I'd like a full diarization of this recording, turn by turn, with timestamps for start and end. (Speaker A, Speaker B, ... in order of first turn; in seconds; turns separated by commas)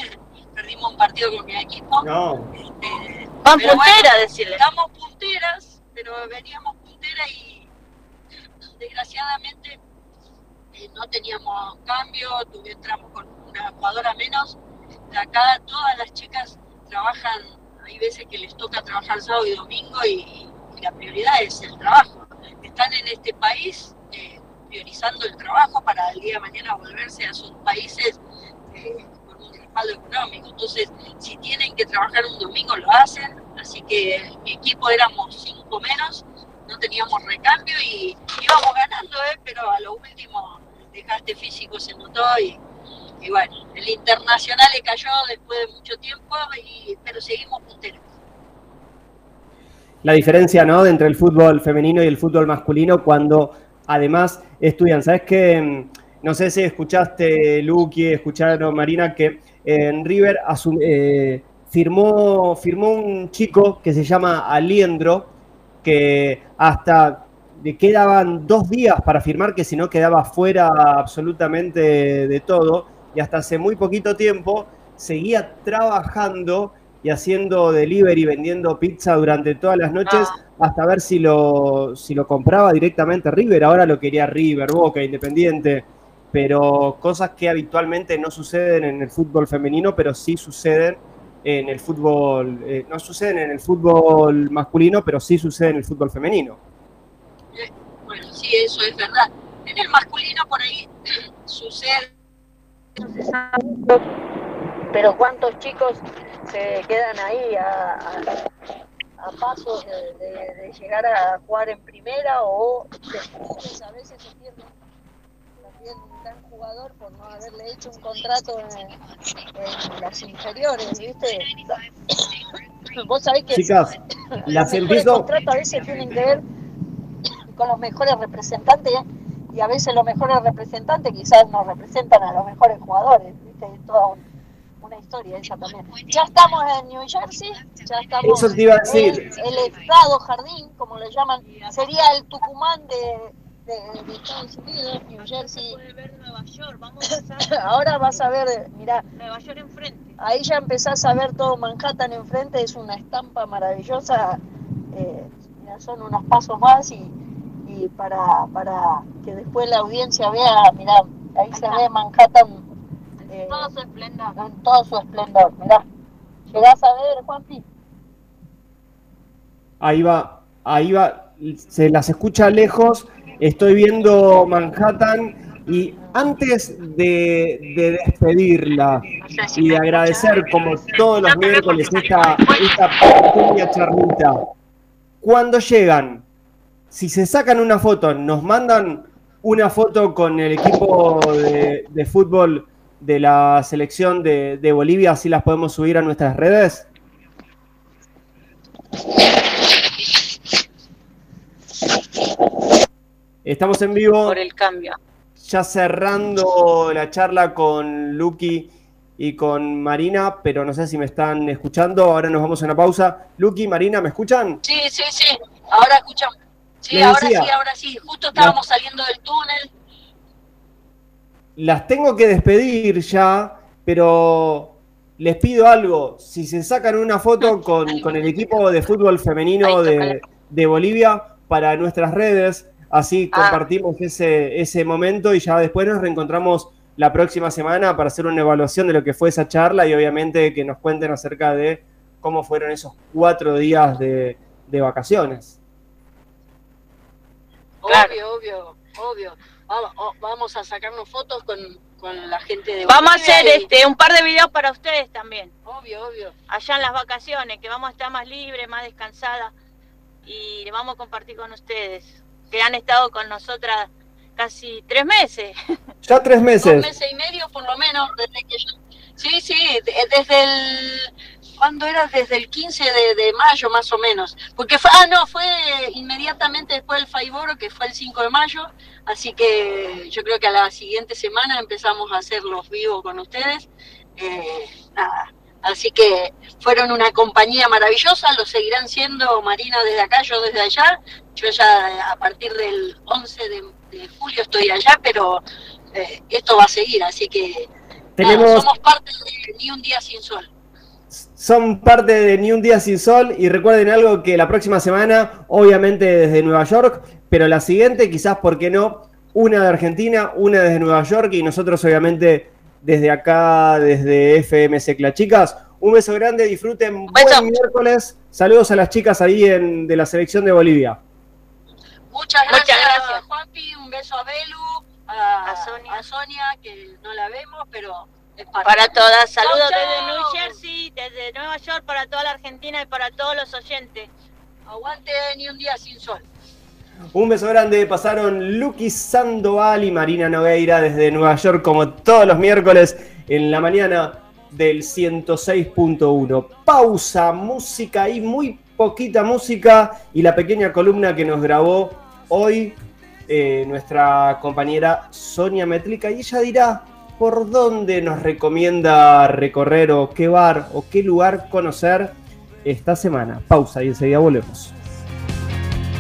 Speaker A: 0.6-7.7, Speaker B: 2.0-2.5, Speaker C: 3.4-4.6, Speaker A: 8.8-9.8, Speaker A: 10.7-14.6, Speaker A: 15.1-28.2, Speaker A: 28.7-42.6, Speaker A: 43.2-48.0, Speaker B: 50.0-65.3, Speaker B: 65.8-96.6, Speaker C: 80.1-80.3, Speaker A: 97.5-102.1, Speaker D: 103.0-104.0, Speaker D: 104.9-108.3, Speaker D: 109.2-114.7, Speaker D: 115.6-119.0, Speaker D: 119.6-121.6, Speaker D: 122.9-123.7, Speaker B: 123.5-124.0, Speaker D: 124.4-126.4, Speaker B: 124.5-125.3, Speaker D: 127.5-134.2, Speaker D: 134.8-145.6, Speaker B: 138.2-139.3, Speaker C: 145.4-147.5, Speaker D: 147.4-149.1, Speaker C: 149.2-150.2, Speaker D: 150.2-154.4, Speaker D: 154.9-157.1, Speaker D: 157.7-162.6, Speaker D: 163.3-165.8, Speaker D: 166.5-167.7, Speaker B: 169.8-179.1, Speaker D: 179.2-180.5, Speaker B: 179.6-184.4, Speaker C: 181.3-182.1, Speaker B: 185.2-186.2, Speaker B: 186.9-196.9, Speaker B: 203.4-204.4, Speaker C: 204.2-205.0, Speaker B: 205.4-214.6, Speaker A: 214.6-219.7, Speaker B: 216.9-217.5, Speaker B: 221.6-245.6, Speaker C: 227.4-228.2, Speaker C: 229.6-230.2, Speaker C: 233.3-233.6, Speaker A: 247.8-253.7, Speaker C: 247.9-248.2, Speaker C: 252.9-255.5, Speaker A: 255.6-256.3, Speaker C: 256.5-259.5, Speaker C: 260.2-265.6, Speaker B: 266.0-266.9, Speaker A: 266.6-300.5, Speaker B: 298.2-298.7, Speaker B: 301.1-321.0, Speaker C: 317.1-317.5, Speaker A: 322.1-330.6, Speaker C: 322.5-323.2, Speaker C: 325.4-326.0, Speaker C: 328.6-334.1, Speaker A: 334.7-336.3, Speaker B: 337.1-364.7